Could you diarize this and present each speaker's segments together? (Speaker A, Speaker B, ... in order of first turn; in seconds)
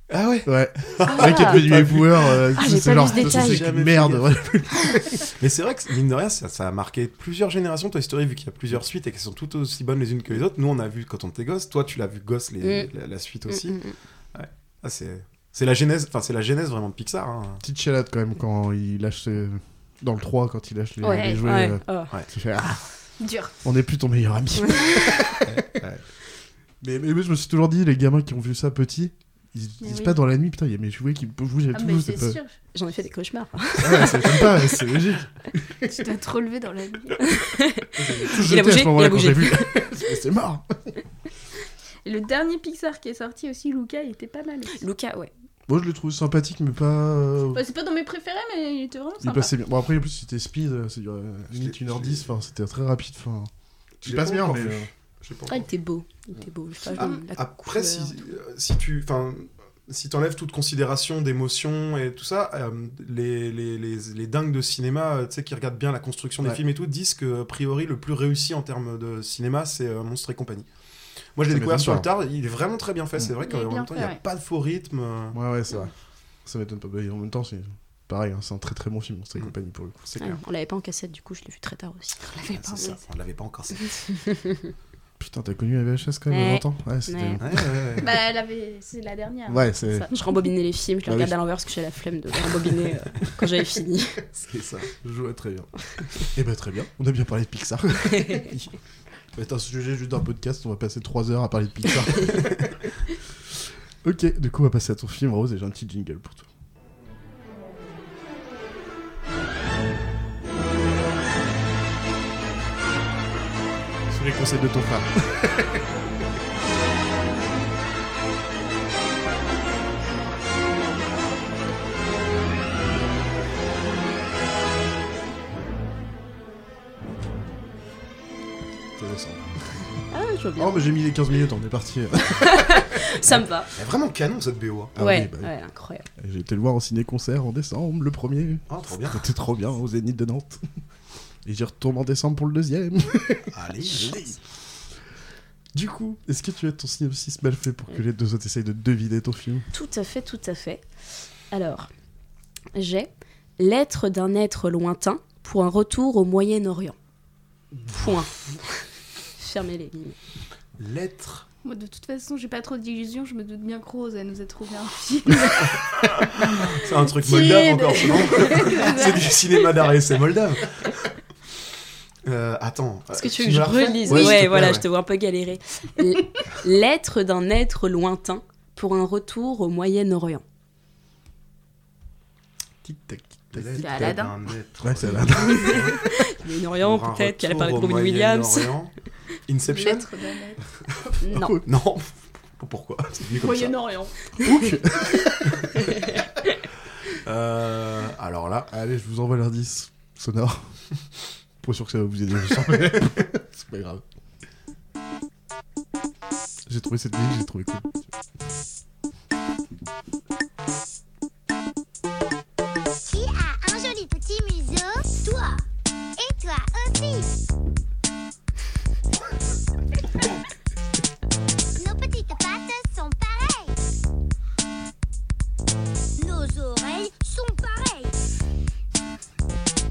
Speaker A: 0.1-2.4, 3.0-4.3, 5.3-13.8, 14.3-17.6, 25.5-26.0, 51.5-52.2, 54.0-55.7, 57.0-70.7, 71.4-75.4, 80.1-80.4, 82.5-84.1, 87.4-88.1, 94.4-94.9, 133.7-134.9, 138.7-139.2, 143.5-144.2, 157.8-158.2, 160.8-161.5, 166.4-171.0, 172.3-174.8, 183.5-186.0, 186.8-188.9, 189.5-190.1, 191.7-192.1, 192.6-193.8, 197.2-198.7
Speaker B: 0.5-5.3, 17.6-22.8, 23.6-26.0, 26.8-32.4, 33.8-35.9, 38.0-40.9, 45.7-47.6, 49.2-53.5, 54.0-54.9, 71.5-72.1, 75.3-75.9, 76.5-80.0, 85.2-87.8, 89.5-90.1, 91.1-91.3, 95.0-98.6, 99.3-102.7, 104.0-106.5, 114.1-115.7, 129.0-129.7, 130.6-132.9, 134.9-135.5, 136.2-140.6, 141.4-144.3, 145.7-149.7, 182.8-184.2, 184.8-186.0, 191.3-191.6, 194.4-195.5, 198.7-200.8, 201.6-204.0, 206.7-208.0
Speaker C: 1.1-1.7, 2.5-3.7, 12.6-12.9, 13.5-14.0, 21.0-22.1, 32.8-34.7, 37.3-39.9, 44.8-45.3, 55.5-58.1, 80.2-82.2, 84.2-84.7, 86.3-87.4, 90.1-94.2, 98.2-98.5, 130.1-131.0, 132.4-133.7, 135.0-136.1, 149.7-150.9, 151.5-151.9, 152.8-157.0, 157.9-158.8, 159.4-160.2, 173.1-180.4, 185.4-188.7, 191.2-191.6
Speaker D: 23.2-23.5, 29.8-30.2, 31.7-32.5, 35.9-37.3, 42.0-44.8, 47.5-49.5, 73.4-74.2, 82.2-83.0, 88.0-90.4, 161.7-166.2, 166.9-169.8, 174.0-174.4, 183.8-184.3, 189.7-190.6, 193.4-194.2
Speaker E: 213.0-215.7, 216.2-217.3, 221.8-223.8, 226.2-228.1